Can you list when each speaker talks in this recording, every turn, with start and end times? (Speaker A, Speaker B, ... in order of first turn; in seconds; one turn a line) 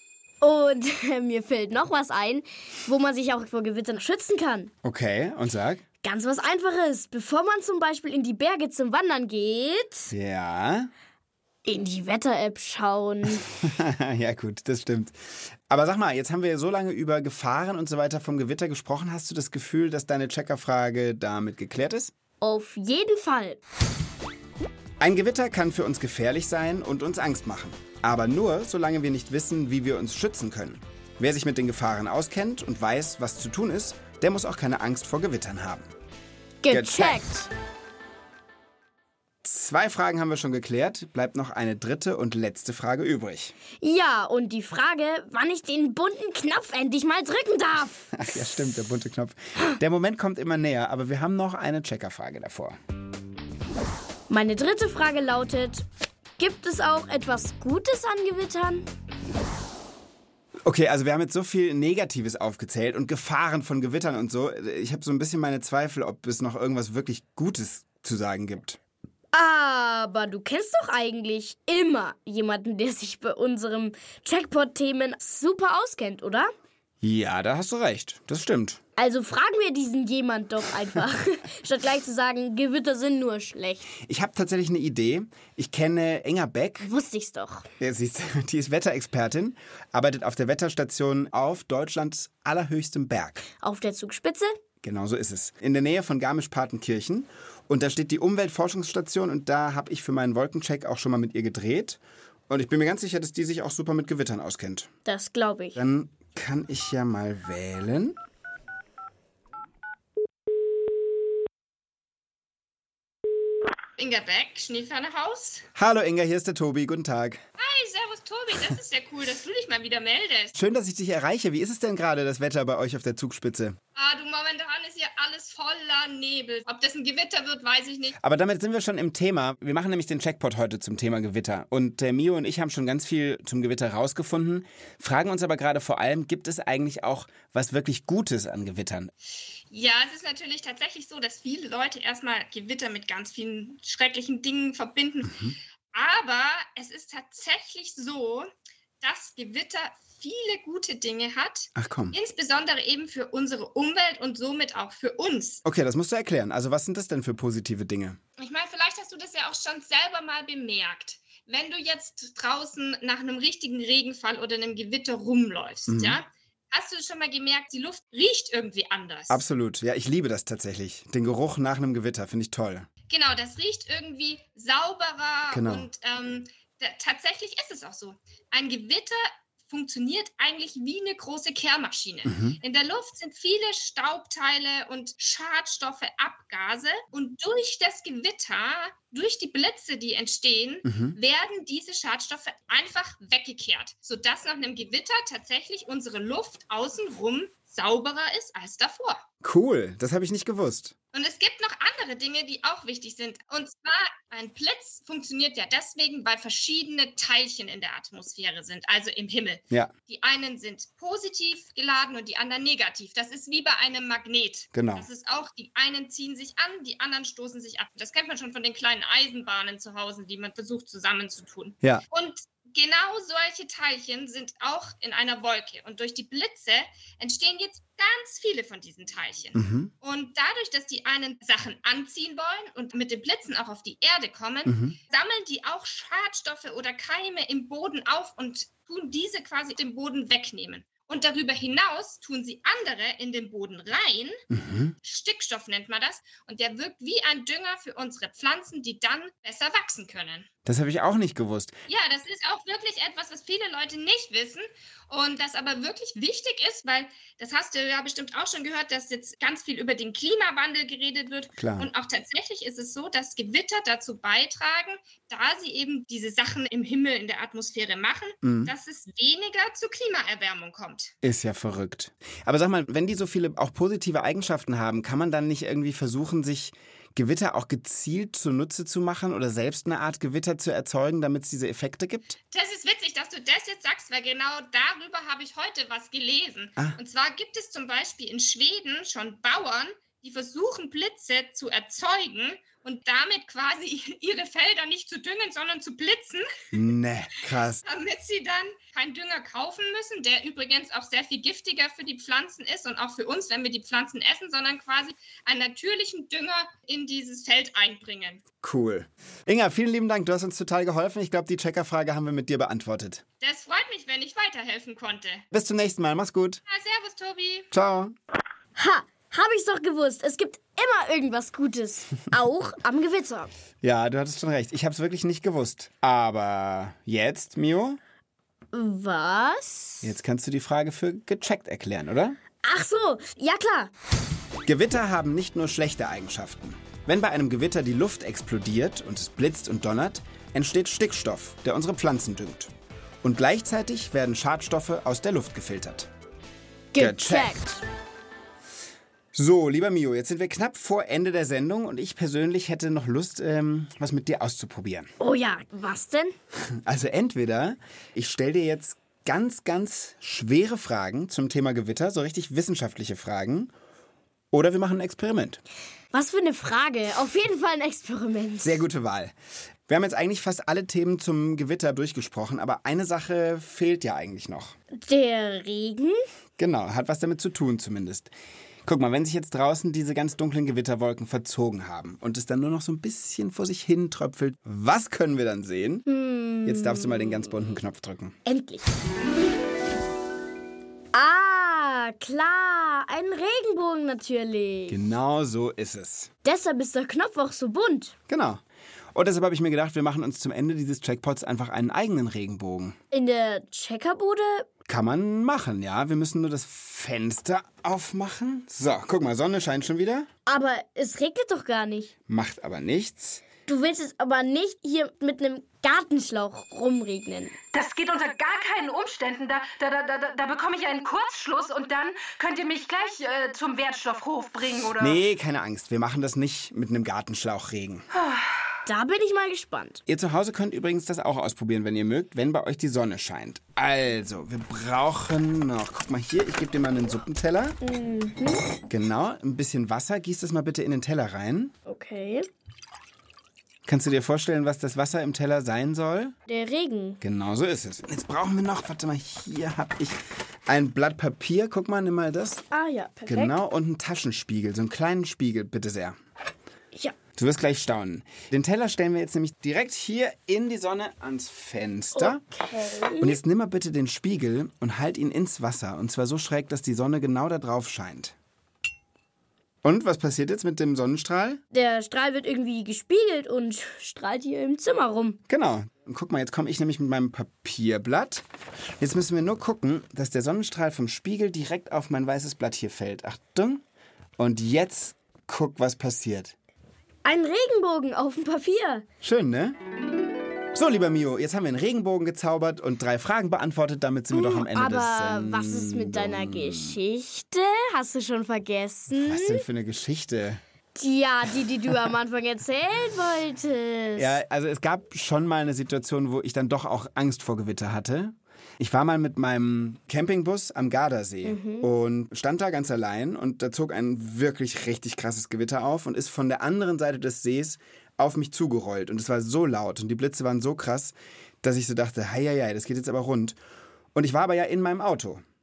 Speaker A: 0.4-4.7
Speaker B: 4.8-5.8
Speaker A: 6.0-10.1
Speaker B: 10.1-10.9
Speaker A: 11.7-13.5
Speaker B: 13.5-22.1
Speaker A: 22.4-23.6
Speaker B: 25.0-35.9
Speaker A: 36.6-37.5
Speaker B: 36.7-37.3
Speaker B: 39.4-43.5
Speaker A: 43.8-48.4
Speaker B: 48.1-52.8
Speaker A: 54.3-55.9
Speaker A: 56.4-58.9
Speaker B: 60.6-68.8
Speaker A: 69.3-76.5
Speaker B: 77.0-78.8
Speaker A: 79.0-83.9
Speaker B: 84.0-86.8
Speaker A: 86.8-87.7
Speaker B: 87.8-93.5
Speaker A: 93.6-94.5
Speaker B: 94.8-104.9
Speaker A: 105.1-105.8
Speaker B: 105.8-108.2
Speaker C: 114.0-115.7
Speaker B: 115.8-117.4
Speaker C: 117.6-120.5
Speaker B: 120.5-123.8
Speaker C: 124.0-128.2
Speaker B: 128.2-139.1
Speaker C: 139.7-148.5
Speaker B: 145.3-145.6
Speaker C: 149.0-155.6
Speaker B: 151.8-152.2
Speaker B: 155.7-158.2
Speaker C: 158.4-169.4
Speaker B: 165.9-166.2
Speaker B: 169.3-172.9
Speaker C: 173.1-199.2
Speaker B: 175.5-175.9
Speaker B: 182.2-182.6
Speaker B: 190.8-191.2
Speaker B: 199.4-200.9
Speaker C: 201.1-244.4
Speaker B: 214.7-215.1
Speaker B: 229.6-229.9
Speaker B: 234.7-235.0
Speaker B: 244.5-245.0
Speaker C: 245.0-250.5
Speaker B: 250.7-251.8
Speaker C: 251.9-271.1
Speaker B: 261.6-261.9
Speaker B: 268.4-268.7
Speaker B: 271.2-282.4
Speaker C: 282.5-296.5
Speaker B: 296.7-297.8
Speaker C: 297.9-308.4
Speaker B: 308.6-313.2
Speaker C: 313.4-315.4
Speaker B: 315.5-316.6
Speaker C: 316.7-317.7
Speaker B: 317.7-318.1
Speaker A: 318.8-323.5
Speaker B: 323.8-328.0
Speaker A: 328.7-330.1
Speaker B: 330.0-332.4
Speaker A: 332.6-333.9
Speaker B: 334.6-342.7
Speaker B: 343.2-346.1
Speaker A: 346.9-347.8
Speaker B: 347.0-347.6
Speaker B: 349.3-355.1
Speaker A: 355.2-356.3
Speaker B: 356.7-363.7
Speaker B: 364.5-365.6
Speaker A: 366.1-368.8
Speaker B: 368.6-369.4
Speaker B: 369.9-374.8
Speaker A: 374.9-376.2
Speaker B: 376.6-378.3
Speaker B: 378.9-386.1
Speaker A: 386.1-387.6
Speaker B: 386.6-388.4
Speaker A: 388.5-388.9
Speaker A: 391.1-395.0
Speaker B: 394.9-396.3
Speaker A: 396.4-398.1
Speaker B: 398.3-398.6
Speaker B: 399.1-403.0
Speaker A: 403.1-404.7
Speaker B: 404.9-410.3
Speaker A: 410.5-412.1
Speaker B: 412.3-413.4
Speaker A: 413.7-417.6
Speaker D: 417.7-425.2
Speaker B: 425.0-428.1
Speaker D: 428.1-428.6
Speaker A: 428.9-430.0
Speaker B: 430.1-437.8
Speaker A: 437.8-438.8
Speaker B: 438.9-441.8
Speaker A: 441.9-442.5
Speaker B: 443.9-446.4
Speaker A: 446.5-447.2
Speaker B: 447.2-452.6
Speaker A: 452.7-453.6
Speaker B: 453.3-456.2
Speaker B: 457.4-462.4
Speaker A: 462.1-463.4
Speaker B: 463.2-468.4
Speaker B: 469.8-471.6
Speaker A: 471.7-475.4
Speaker B: 475.5-478.4
Speaker B: 479.0-483.8
Speaker B: 484.4-486.6
Speaker A: 487.2-489.1
Speaker B: 489.2-489.8
Speaker B: 490.7-497.0
Speaker A: 494.3-499.6
Speaker B: 499.1-500.6
Speaker A: 500.9-504.4
Speaker B: 504.2-523.6
Speaker A: 511.4-511.9
Speaker B: 524.1-525.4